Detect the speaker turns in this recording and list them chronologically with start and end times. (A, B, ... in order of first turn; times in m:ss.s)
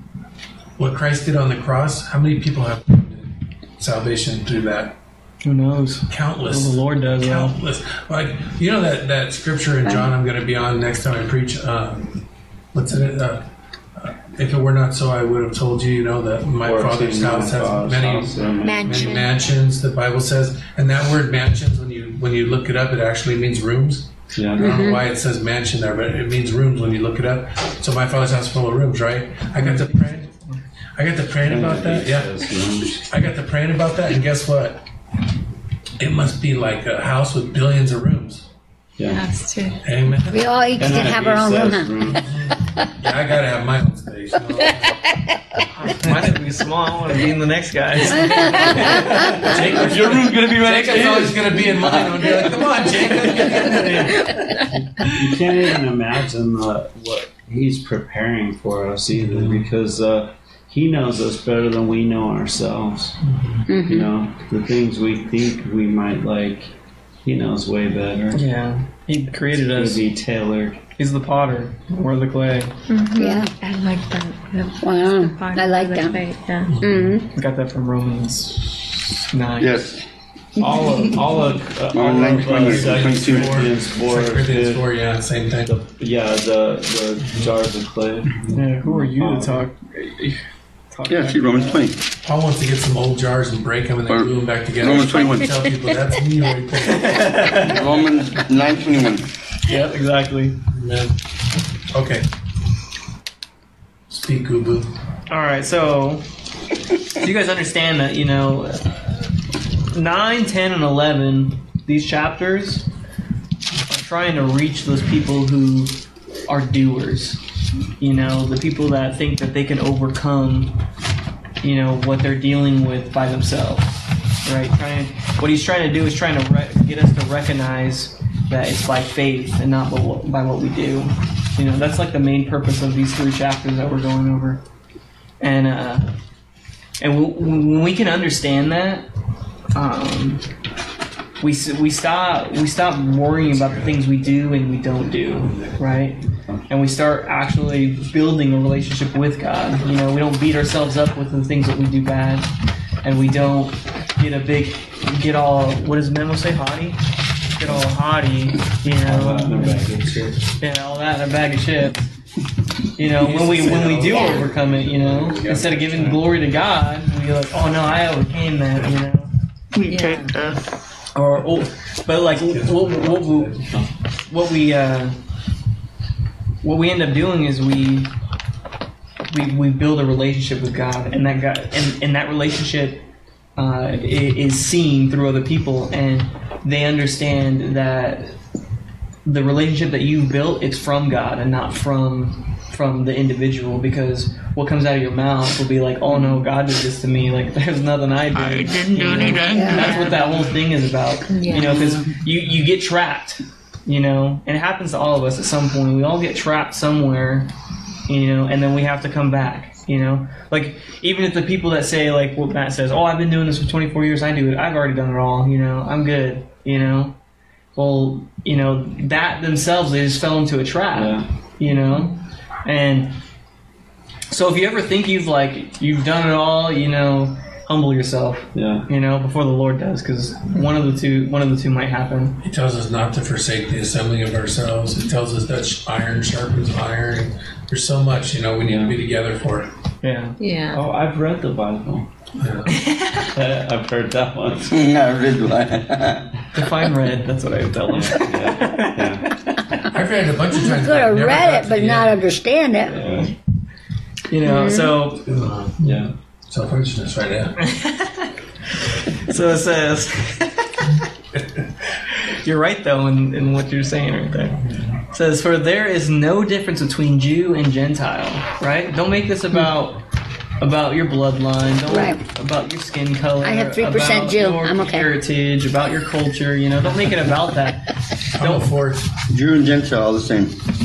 0:00.8-0:05.0 A
0:05.4-0:07.5 B
0:06.1-0:12.2 A
0:12.7-0:13.5 A
0:14.0-0:30.3 A
0:16.6-0:19.2 C
0:18.6-0:19.4 D
0:24.4-0:24.7 C
0:24.6-0:25.0 E
0:29.6-0:30.6 B
0:31.0-0:32.4 A
0:31.4-0:33.0 C
0:33.1-0:34.8 A
0:36.0-0:38.4 A
0:39.0-0:39.2 C
0:39.1-0:39.8 D
0:39.8-0:40.5 A
0:40.3-0:42.2 E
0:40.8-0:42.2 C
0:42.2-0:45.0 A
0:45.8-0:49.6 B
0:45.9-0:46.4 A
0:48.4-0:54.3 A
0:49.5-0:52.6 F
0:53.6-0:54.2 B
0:55.0-1:03.1 C
0:59.2-0:59.6 A
1:03.7-1:04.1 E
1:03.8-1:06.7 C
1:07.2-1:08.4 C
1:08.3-1:10.0 B
1:09.5-1:10.8 C
1:11.0-1:12.7 B
1:12.9-1:16.8 D
1:13.2-1:13.5 E
1:14.8-1:16.2 E
1:16.7-1:17.2 A
1:16.8-1:17.3 E
1:17.3-1:19.8 B
1:19.6-1:20.0 F
1:20.6-1:24.8 C
1:21.9-1:23.7 F
1:22.2-1:25.7 A
1:25.6-1:29.7 C
1:28.5-1:30.4 B
1:30.9-1:31.8 B
1:31.1-1:32.0 F
1:32.2-1:37.6 A
1:34.1-1:35.6 F
1:36.8-1:37.8 B
1:37.6-1:39.3 F
1:39.6-1:40.6 B
1:40.7-1:41.1 A
1:41.9-1:42.3 A
1:44.1-1:44.9 A
1:45.3-1:46.2 B
1:47.2-1:49.0 B
1:49.9-1:52.8 B
1:53.9-1:56.0 B
1:56.5-1:57.4 B
1:58.0-2:00.7 B
2:01.6-2:14.6 B
2:15.4-2:16.1 B
2:17.0-2:19.1 B
2:19.7-2:20.4 B
2:21.4-2:32.5 B
2:23.6-2:24.2 A
2:25.4-2:25.8 A
2:33.0-2:39.9 B
2:39.0-2:40.4 C
2:40.6-2:42.1 B
2:43.0-2:49.3 B
2:43.1-2:46.2 A
2:49.7-2:50.6 G
2:49.9-2:50.3 D
2:51.1-2:53.6 B
2:52.2-2:53.8 A
2:54.3-2:55.2 B
2:56.6-2:58.1 B
2:59.3-3:03.0 B
3:03.6-3:08.4 B
3:09.2-3:27.5 B
3:18.5-3:19.9 G
3:19.1-3:20.2 D
3:19.5-3:20.0 E
3:21.3-3:22.0 D
3:28.1-3:37.2 B
3:37.7-3:43.1 B
3:40.9-3:41.2 C
3:44.3-3:52.4 B
3:48.5-3:48.8 C
3:52.4-3:59.7 A
3:58.6-3:59.0 C
4:00.0-4:00.4 B
4:00.4-4:00.8 D
4:00.7-4:02.1 C
4:02.4-4:02.8 A
4:03.2-4:04.8 C
4:04.7-4:06.3 F
4:06.5-4:09.8 B
4:07.9-4:09.3 C
4:09.9-4:12.2 A
4:10.6-4:13.0 E
4:12.8-4:13.3 C
4:14.3-4:15.3 B
4:14.4-4:15.0 E
4:15.3-4:17.6 A
4:15.8-4:16.1 C
4:17.6-4:18.2 B
4:18.9-4:20.9 B
4:22.4-4:24.6 B
4:25.1-4:30.0 B
4:30.6-4:38.7 B
4:31.9-4:32.2 E
4:33.4-4:35.1 E
4:38.4-4:39.1 A
4:39.3-4:40.6 F